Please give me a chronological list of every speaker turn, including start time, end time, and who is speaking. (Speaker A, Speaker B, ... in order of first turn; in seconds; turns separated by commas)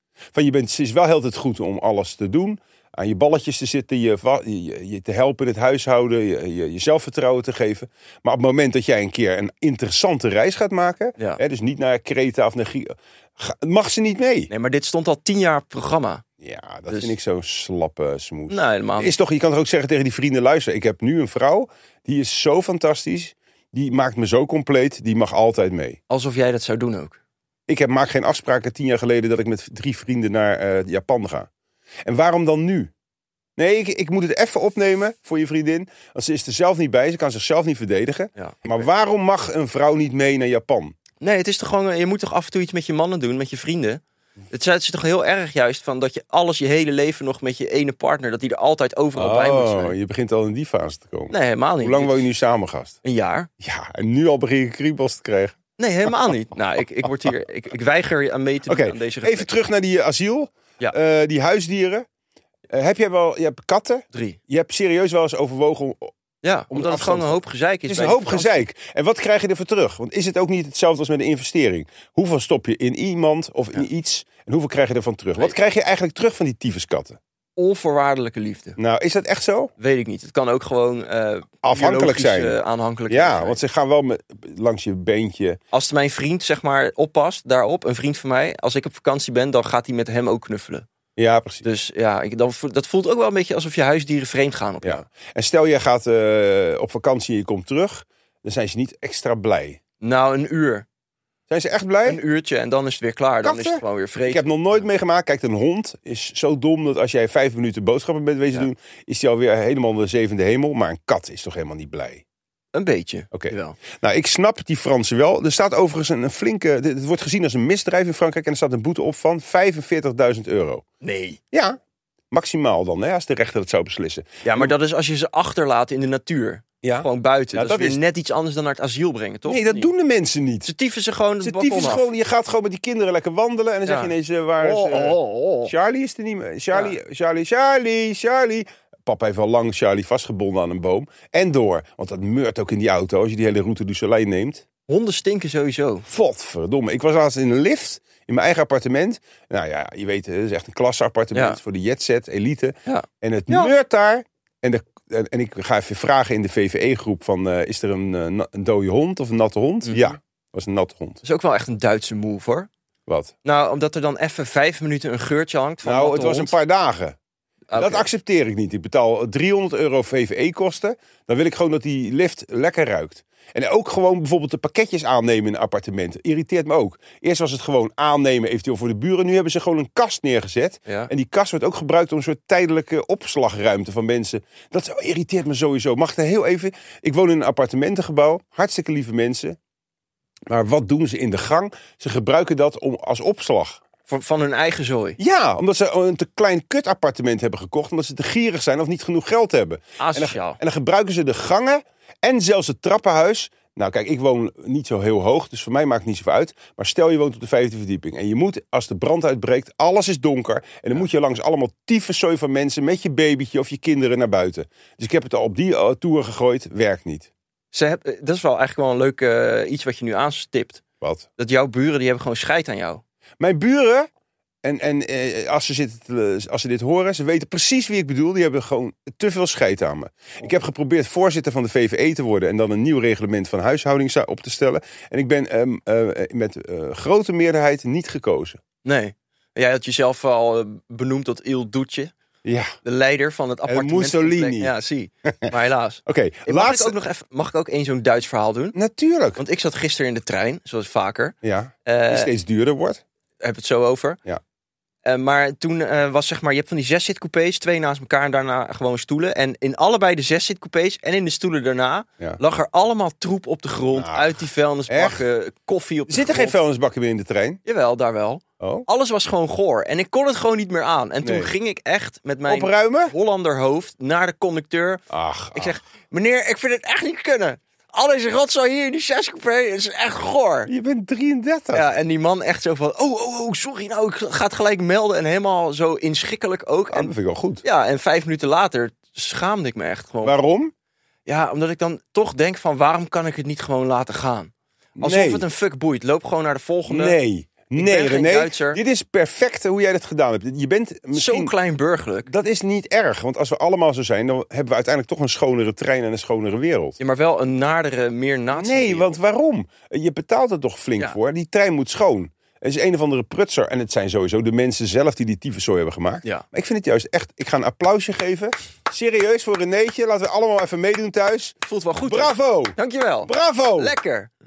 Speaker A: 0.3-14.5, Speaker B: 14.5-16.2, Speaker A: 16.4-26.0, Speaker B: 18.5-19.1, Speaker B: 26.1-27.2, Speaker A: 27.7-31.5, Speaker A: 32.0-32.9, Speaker A: 33.6-40.9, Speaker B: 38.4-38.9, Speaker B: 41.2-49.9, Speaker A: 49.1-53.0, Speaker B: 51.3-52.2, Speaker B: 53.0-53.5, Speaker A: 53.6-55.6, Speaker B: 55.8-59.5, Speaker A: 58.7-62.0, Speaker A: 62.7-66.1, Speaker B: 64.1-64.4, Speaker B: 66.4-68.6, Speaker A: 66.7-77.2, Speaker B: 77.6-78.8, Speaker A: 78.8-79.7, Speaker B: 79.8-83.6, Speaker A: 81.6-82.6, Speaker A: 83.1-85.6, Speaker B: 85.7-90.8, Speaker A: 91.2-91.6, Speaker B: 91.6-95.1, Speaker A: 94.8-99.8, Speaker B: 100.0-100.8, Speaker A: 101.5-102.2, Speaker B: 102.0-104.5, Speaker A: 103.4-112.2, Speaker B: 112.7-113.8, Speaker A: 113.3-120.8, Speaker B: 121.0-121.4, Speaker A: 121.5-121.8, Speaker A: 122.3-124.7, Speaker B: 124.4-129.9, Speaker A: 126.8-128.0, Speaker A: 129.4-130.7, Speaker B: 130.6-132.1, Speaker A: 131.4-144.6, Speaker B: 133.8-135.7, Speaker B: 136.7-137.0, Speaker B: 144.9-146.1, Speaker A: 146.1-161.2, Speaker B: 151.3-151.6, Speaker B: 152.8-153.7, Speaker B: 159.8-160.1, Speaker B: 161.2-162.7, Speaker A: 163.1-163.3, Speaker B: 163.4-166.5, Speaker A: 165.8-167.2, Speaker B: 167.7-168.1, Speaker A: 167.7-189.6, Speaker B: 180.8-181.1, Speaker A: 190.5-193.8, Speaker B: 194.1-195.2, Speaker A: 195.2-217.3, Speaker B: 200.0-200.6, Speaker B: 217.7-220.8, Speaker A: 221.0-221.3, Speaker B: 221.4-223.0, Speaker A: 223.4-224.1, Speaker A: 224.6-238.6, Speaker B: 238.8-242.1, Speaker A: 242.4-242.7, Speaker B: 242.8-248.8, Speaker A: 243.7-244.7, Speaker A: 245.2-245.5, Speaker A: 246.1-246.9, Speaker A: 248.7-249.4, Speaker B: 249.4-252.3, Speaker A: 251.4-253.0, Speaker B: 253.4-254.2, Speaker B: 255.0-266.6, Speaker A: 263.9-265.2, Speaker A: 266.1-267.6, Speaker B: 267.6-280.7, Speaker A: 268.6-268.9, Speaker A: 271.2-271.5, Speaker A: 272.5-273.1, Speaker A: 275.1-275.8, Speaker A: 280.7-281.9, Speaker B: 281.7-290.3, Speaker A: 286.9-287.6, Speaker A: 290.2-290.7, Speaker B: 291.2-297.2, Speaker A: 295.0-295.4, Speaker A: 296.9-301.5, Speaker B: 297.8-298.8, Speaker B: 301.1-302.3, Speaker A: 302.2-307.0, Speaker B: 307.0-309.1, Speaker A: 308.5-323.9, Speaker B: 321.6-324.3